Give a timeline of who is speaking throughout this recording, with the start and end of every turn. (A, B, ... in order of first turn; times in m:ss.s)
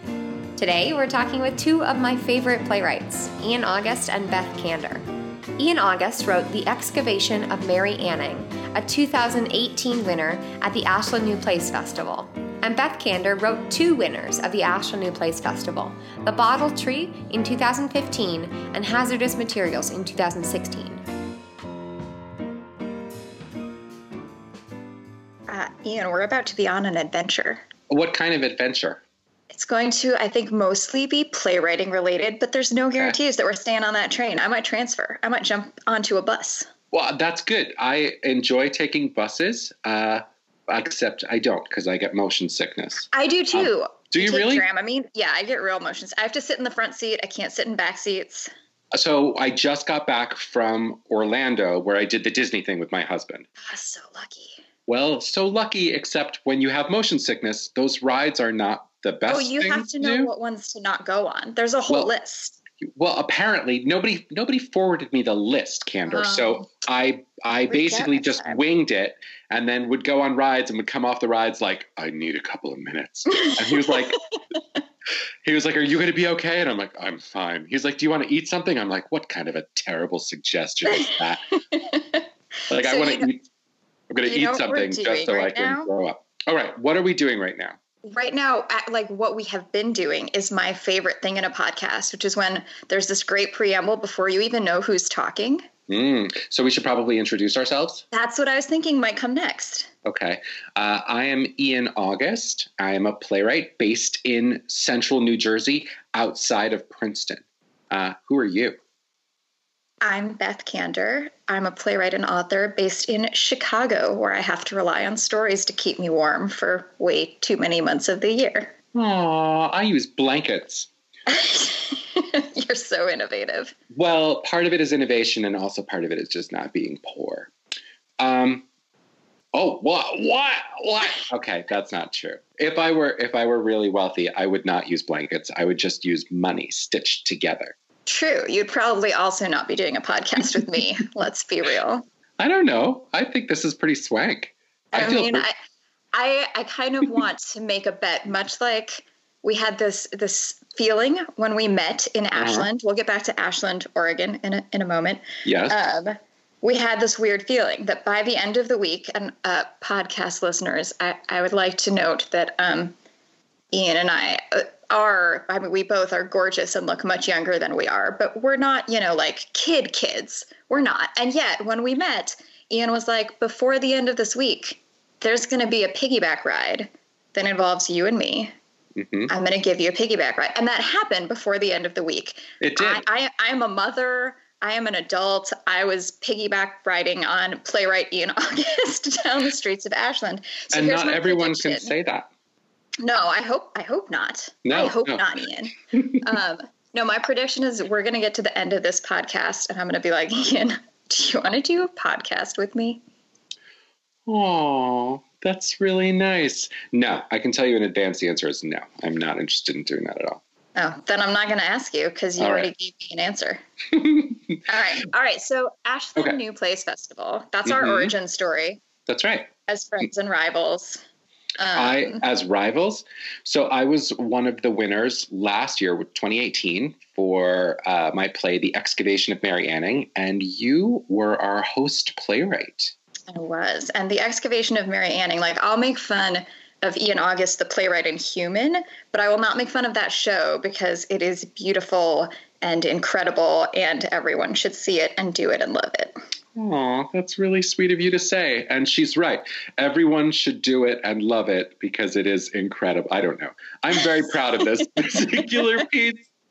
0:00.6-0:05.0 A
0:05.6-0:21.0 A
0:25.5-0:27.6 B
0:27.9-0:29.0 C
0:29.5-0:36.7 B
0:36.9-0:44.6 C
0:43.1-0:48.5 B
0:48.9-0:53.4 C
0:53.6-0:54.6 B
0:54.9-1:00.3 C
0:59.3-1:02.6 B
1:02.8-1:14.2 C
1:06.1-1:06.7 B
1:07.7-1:08.6 B
1:13.3-1:14.0 B
1:15.4-1:21.4 C
1:20.8-1:22.3 B
1:22.7-1:23.4 C
1:22.8-1:23.3 B
1:24.1-1:27.8 C
1:24.2-1:25.9 B
1:28.0-1:35.6 B
1:35.9-1:38.0 C
1:38.1-1:39.9 B
1:40.0-1:48.8 C
1:50.0-1:58.7 B
1:58.9-2:00.9 C
2:01.3-2:03.7 B
2:03.9-2:07.5 C
2:08.2-2:08.6 C
2:09.5-2:17.7 C
2:18.0-2:22.0 B
2:22.4-2:25.4 C
2:24.9-2:25.5 B
2:26.1-2:42.9 B
2:32.3-2:32.7 C
2:35.4-2:35.8 C
2:43.7-2:58.5 B
2:59.0-2:59.3 C
2:59.3-3:11.9 B
3:02.6-3:03.0 C
3:10.7-3:12.3 C
3:13.0-3:23.0 B
3:14.6-3:15.2 C
3:24.2-3:30.4 C
3:30.8-3:33.6 B
3:32.4-3:32.7 C
3:33.9-3:34.6 C
3:34.7-3:38.8 B
3:37.6-3:38.1 C
3:39.1-3:39.5 C
3:39.7-3:41.0 B
3:41.6-3:42.2 B
3:41.7-3:52.9 C
3:53.3-4:06.1 B
4:06.6-4:16.2 C